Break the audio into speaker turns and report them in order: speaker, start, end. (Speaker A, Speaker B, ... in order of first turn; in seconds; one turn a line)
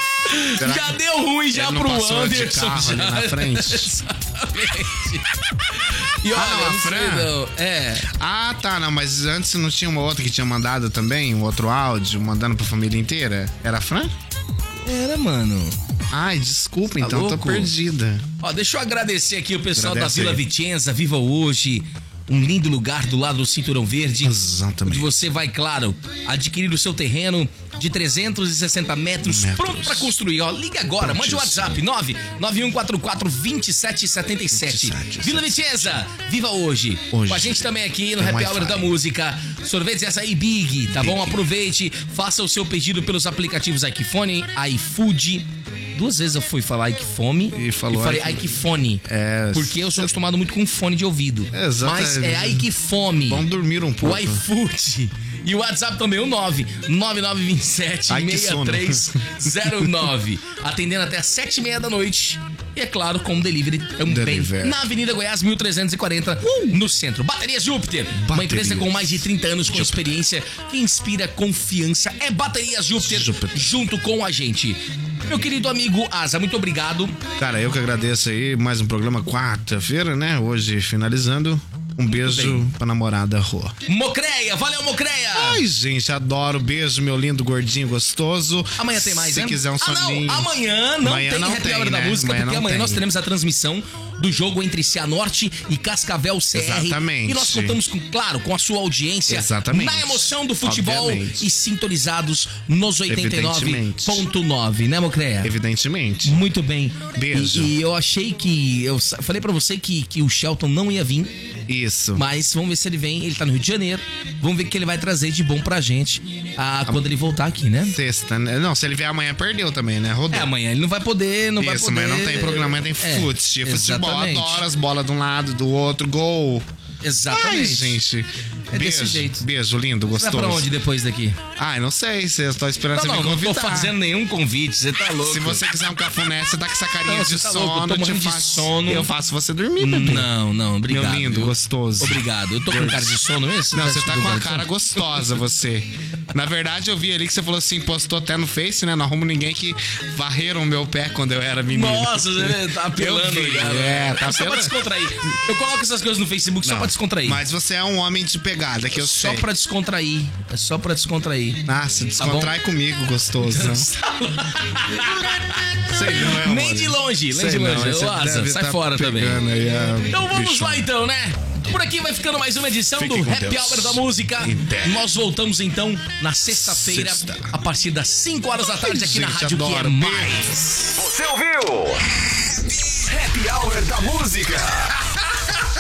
Speaker A: 0.3-8.1
Speaker B: 0.6-1.0
Speaker B: 1.5-3.9
Speaker B: 6.3-7.3
Speaker B: 8.1-14.1
Speaker A: 14.8-15.8
Speaker B: 16.1-18.2
Speaker A: 17.0-17.7
Speaker A: 18.4-53.5
Speaker B: 19.7-20.4
Speaker B: 24.2-25.2
Speaker B: 29.2-30.1
Speaker B: 31.0-31.8
Speaker B: 34.5-36.0
Speaker B: 37.1-39.0
Speaker B: 40.9-41.4
Speaker B: 47.5-50.1
Speaker B: 51.5-52.7
Speaker B: 53.3-54.5
Speaker A: 54.0-77.2
Speaker B: 58.1-60.0
Speaker B: 64.1-64.8
Speaker B: 66.4-66.8
Speaker B: 68.1-70.2
Speaker B: 73.0-73.7
Speaker B: 77.4-83.8
Speaker A: 82.1-82.7
Speaker A: 83.9-85.6
Speaker B: 85.3-93.0
Speaker A: 88.8-105.5
Speaker B: 96.5-97.8
Speaker B: 99.3-101.5
Speaker B: 103.1-104.3
Speaker B: 105.4-106.4
Speaker A: 106.2-111.3
Speaker B: 107.1-107.7
Speaker B: 111.7-112.2
Speaker A: 112.1-118.0
Speaker B: 117.9-120.5
Speaker A: 120.3-124.6
Speaker B: 121.6-126.7
Speaker A: 127.0-128.0
Speaker B: 127.3-130.7
Speaker A: 128.7-129.4
Speaker A: 130.2-131.4
Speaker B: 131.6-134.0
Speaker A: 132.9-135.6
Speaker B: 135.2-140.3
Speaker A: 137.1-139.1
Speaker A: 139.8-145.3
Speaker B: 140.9-143.2
Speaker B: 143.7-154.8
Speaker A: 151.7-157.4
Speaker B: 156.6-159.5
Speaker A: 158.9-161.6
Speaker B: 161.7-163.9
Speaker A: 162.2-162.5
Speaker A: 163.4-169.4
Speaker B: 165.0-170.9
Speaker A: 170.1-180.9
Speaker B: 173.0-175.0
Speaker B: 176.5-177.6
Speaker B: 178.8-180.4
Speaker C: 181.0-182.1
Speaker C: 182.7-185.5